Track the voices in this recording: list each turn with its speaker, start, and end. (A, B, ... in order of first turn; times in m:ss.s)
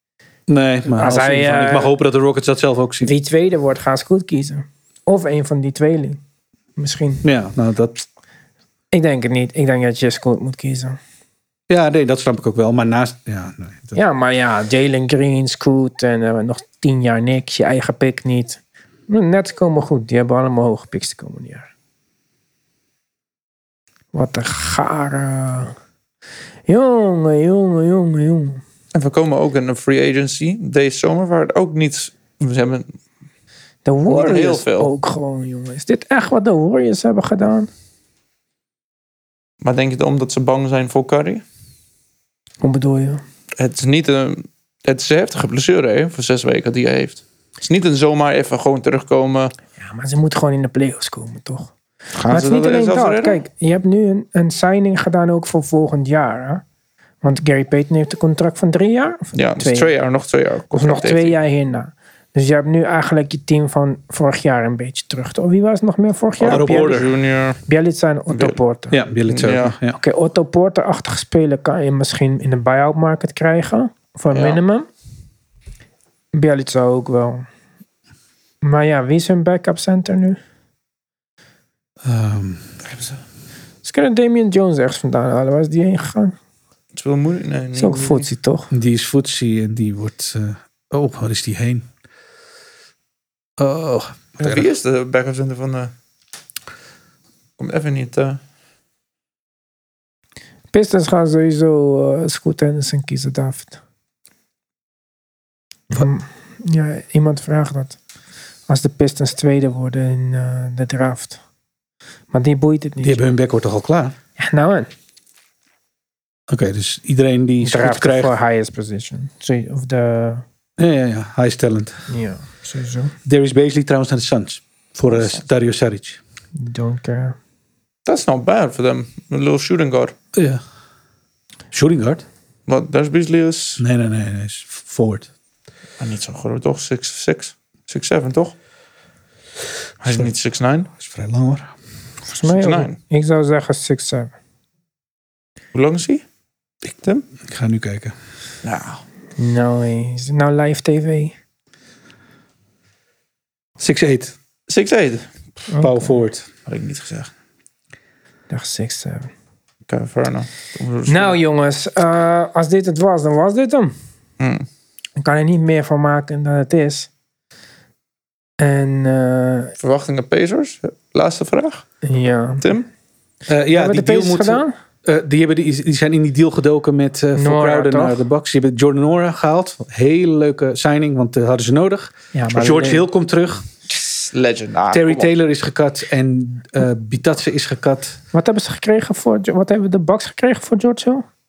0:00.5-0:03.1 A
0:01.0-0:01.9 B
0:03.0-0:06.2 B
0:06.8-0:07.2 B
0:07.2-0:08.0 A
0:08.9-0:11.0 B
0:11.7-0:14.0 A
0:14.0-0:21.7 B
0:24.1-0:25.7 B
0:26.7-0:28.6 B
0:28.9-0:32.8 C
0:33.8-0:37.7 B
0:34.1-0:34.9 C
0:39.6-0:41.4 C
0:42.6-0:43.2 B
0:43.6-0:49.5 C
0:49.8-0:51.7 B
0:52.2-0:53.4 C
0:52.3-0:56.6 B
0:57.2-0:59.9 B
0:59.3-1:01.3 C
1:00.7-1:07.1 B
1:06.4-1:07.6 C
1:06.4-1:07.1 A
1:07.6-1:09.0 B
1:08.3-1:08.6 C
1:08.9-1:10.0 A
1:09.3-1:09.7 C
1:09.9-1:14.8 B
1:14.3-1:14.6 C
1:16.3-1:17.5 B
1:18.6-1:20.4 B
1:22.0-1:22.7 A
1:22.8-1:23.2 C
1:23.8-1:26.4 B
1:26.9-1:28.3 C
1:27.8-1:28.7 B
1:28.7-1:31.9 A
1:33.6-1:34.7 A
1:34.4-1:35.9 C
1:37.6-1:38.4 C
1:40.7-1:43.8 B
1:45.9-1:48.0 B
1:48.7-1:51.4 B
1:52.3-1:53.2 B
1:53.0-1:54.1 A
1:54.4-1:54.9 B
1:56.5-1:58.3 A
1:57.6-2:00.4 B
2:00.8-2:02.0 A
2:02.1-2:03.1 B
2:03.2-2:06.2 A
2:06.6-2:07.4 B
2:08.0-2:10.1 C
2:10.3-2:10.6 A
2:11.7-2:12.2 A
2:12.7-2:13.8 C
2:13.8-2:15.3 A
2:16.0-2:18.5 C
2:20.0-2:20.9 C
2:21.0-2:21.7 A
2:22.3-2:24.3 B
2:22.4-2:22.9 C
2:25.7-2:26.2 C
2:27.4-2:28.1 A
2:28.6-2:29.0 C
2:29.4-2:31.3 B
2:33.8-2:34.4 A
2:34.7-2:35.2 C
2:35.7-2:36.2 B
2:35.8-2:36.4 A
2:36.6-2:37.3 C
2:38.5-2:39.3 B
2:39.9-2:41.4 C
2:41.1-2:43.9 B
2:44.4-2:44.7 C
2:45.2-2:47.1 B
2:48.6-2:49.7 B
2:49.8-2:51.9 C
2:52.0-2:52.6 B
2:52.6-2:52.9 C
2:53.5-3:03.6 A
2:53.7-2:54.7 B
2:57.4-2:58.2 B
3:02.3-3:03.1 B
3:04.1-3:05.3 C
3:04.9-3:08.2 A
3:08.3-3:11.2 B